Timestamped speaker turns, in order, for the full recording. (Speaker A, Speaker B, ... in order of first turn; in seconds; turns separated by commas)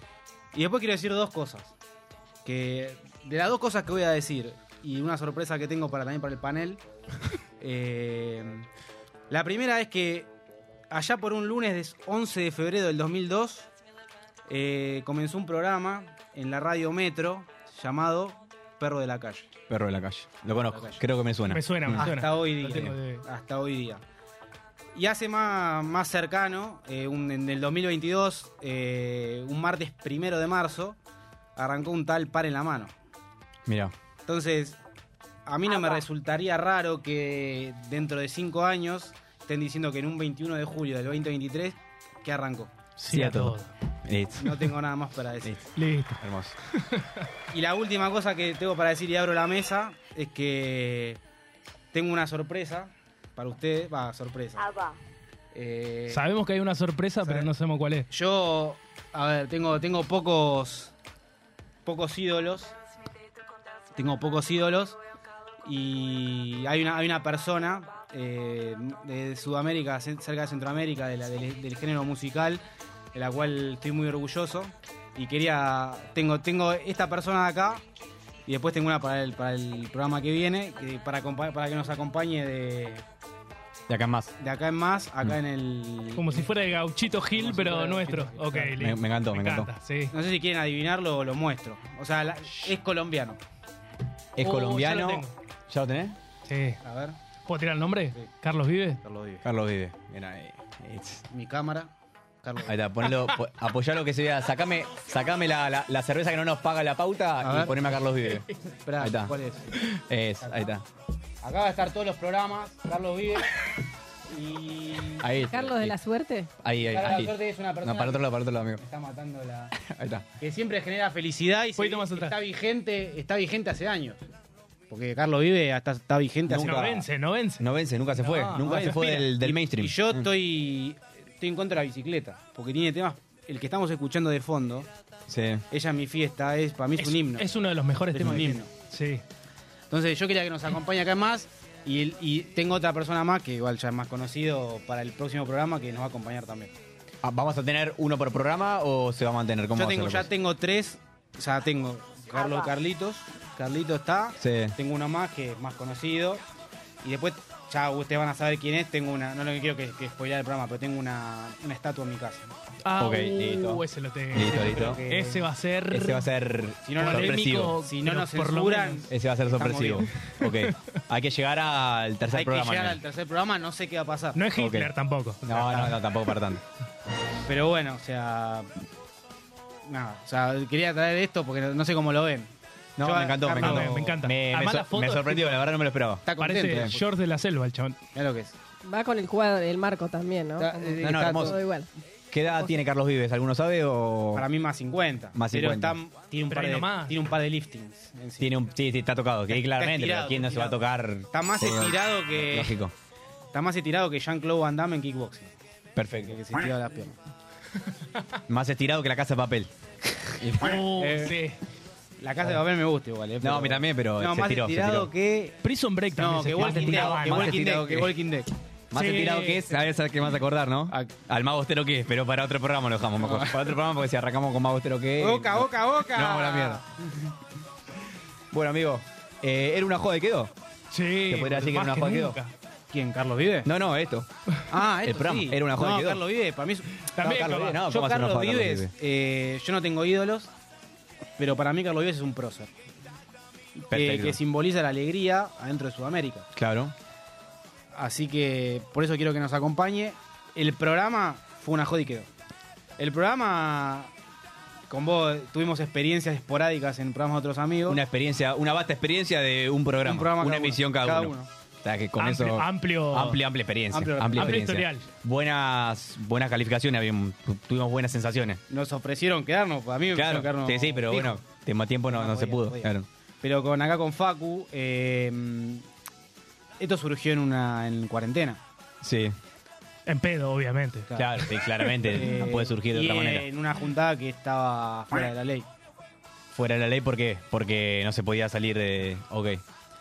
Speaker A: 0.5-1.7, Speaker A: 2.5-6.8, Speaker A: 7.6-8.7, Speaker A: 9.3-10.3, Speaker A: 10.9-13.7, Speaker A: 14.5-19.5, Speaker B: 19.7-22.1, Speaker A: 20.7-21.0, Speaker C: 21.5-23.2, Speaker A: 21.9-24.0, Speaker A: 24.9-31.0, Speaker A: 31.6-32.9, Speaker B: 33.7-33.9, Speaker A: 34.3-34.8, Speaker A: 35.5-42.7, Speaker D: 35.7-36.0, Speaker C: 43.0-43.7, Speaker B: 43.1-44.7, Speaker A: 44.4-45.6, Speaker C: 45.8-46.2, Speaker B: 46.2-46.6, Speaker C: 46.7-47.3, Speaker A: 47.5-51.2, Speaker A: 51.9-54.8, Speaker A: 55.5-56.2, Speaker C: 56.1-58.1, Speaker A: 57.2-57.5, Speaker A: 58.1-60.9, Speaker A: 61.9-62.8, Speaker A: 64.0-65.0, Speaker A: 65.6-72.6, Speaker A: 73.1-77.8, Speaker A: 78.5-83.0, Speaker B: 83.9-84.3, Speaker A: 84.4-86.5, Speaker C: 86.2-90.1, Speaker A: 87.3-88.7, Speaker B: 88.8-89.7, Speaker A: 90.1-93.4, Speaker B: 94.4-96.2, Speaker C: 94.4-95.3, Speaker C: 96.5-96.8, Speaker A: 96.8-97.2, Speaker C: 97.5-99.0, Speaker A: 99.0-99.5, Speaker B: 99.4-101.2, Speaker A: 101.3-101.9, Speaker A: 102.4-102.8, Speaker B: 102.6-108.5, Speaker A: 107.4-108.0, Speaker A: 108.8-109.7, Speaker B: 109.0-109.3, Speaker B: 110.1-110.8, Speaker A: 110.4-110.7, Speaker A: 111.4-113.6, Speaker A: 114.3-115.3, Speaker B: 115.2-116.0, Speaker D: 115.4-116.5, Speaker B: 116.6-118.8, Speaker A: 116.9-119.7, Speaker B: 119.8-120.2, Speaker A: 120.4-124.2, Speaker C: 121.8-122.3, Speaker A: 124.9-126.8, Speaker B: 126.5-127.1, Speaker C: 126.6-129.3, Speaker B: 127.6-130.3, Speaker A: 128.6-134.9, Speaker B: 135.3-135.6, Speaker A: 135.7-137.5, Speaker C: 137.0-139.2, Speaker A: 138.1-138.7, Speaker A: 139.9-146.7, Speaker B: 147.2-150.3, Speaker A: 149.8-156.4, Speaker B: 154.4-154.8, Speaker A: 157.0-162.5, Speaker C: 162.8-166.3, Speaker B: 163.0-165.0, Speaker A: 164.4-165.5, Speaker B: 165.9-167.8, Speaker A: 166.8-170.1, Speaker C: 166.9-169.1, Speaker B: 169.1-173.0, Speaker C: 170.2-170.7, Speaker A: 172.3-174.4, Speaker C: 174.3-176.0, Speaker B: 174.6-174.9, Speaker B: 175.4-176.6, Speaker A: 177.5-178.7, Speaker A: 179.9-184.1, Speaker B: 183.0-186.9, Speaker C: 183.5-185.7, Speaker A: 186.3-187.0, Speaker C: 186.4-188.0, Speaker A: 188.2-188.5, Speaker D: 188.8-191.9, Speaker A: 190.6-191.6, Speaker B: 191.0-191.6, Speaker B: 192.3-194.5, Speaker D: 192.5-192.8, Speaker A: 194.3-198.5, Speaker B: 195.3-196.0, Speaker C: 196.5-197.2, Speaker B: 198.4-202.9, Speaker A: 199.5-200.8, Speaker A: 201.3-202.7, Speaker A: 203.5-205.5, Speaker B: 205.9-206.4, Speaker A: 206.2-207.2, Speaker B: 208.5-209.7, Speaker B: 210.4-210.8, Speaker C: 210.6-211.6, Speaker A: 210.9-211.4, Speaker A: 212.2-215.6, Speaker B: 213.4-215.1, Speaker C: 215.6-217.6, Speaker A: 216.2-218.5, Speaker B: 216.6-218.2, Speaker B: 218.9-226.8, Speaker C: 218.9-219.7, Speaker A: 223.2-223.7, Speaker A: 225.2-227.3, Speaker B: 228.5-230.5, Speaker C: 230.9-232.5, Speaker B: 231.3-232.4, Speaker A: 232.9-233.7, Speaker B: 233.7-234.3, Speaker A: 234.7-237.1, Speaker B: 235.0-236.2, Speaker C: 237.1-237.8, Speaker B: 237.2-238.9, Speaker A: 237.7-240.5, Speaker A: 241.4-242.7, Speaker A: 243.8-246.5, Speaker B: 243.9-244.4, Speaker B: 246.6-246.9, Speaker A: 247.9-252.3, Speaker A: 253.0-254.1, Speaker A: 254.9-258.0, Speaker B: 257.9-268.6, Speaker A: 260.0-261.5, Speaker C: 262.2-263.4, Speaker A: 263.9-264.7, Speaker C: 264.4-265.1, Speaker A: 268.7-271.4, Speaker B: 270.1-273.1, Speaker A: 272.1-275.9, Speaker A: 276.8-278.6, Speaker B: 279.0-279.4, Speaker C: 280.1-281.1, Speaker A: 281.1-285.7, Speaker B: 281.2-283.5, Speaker B: 286.5-289.6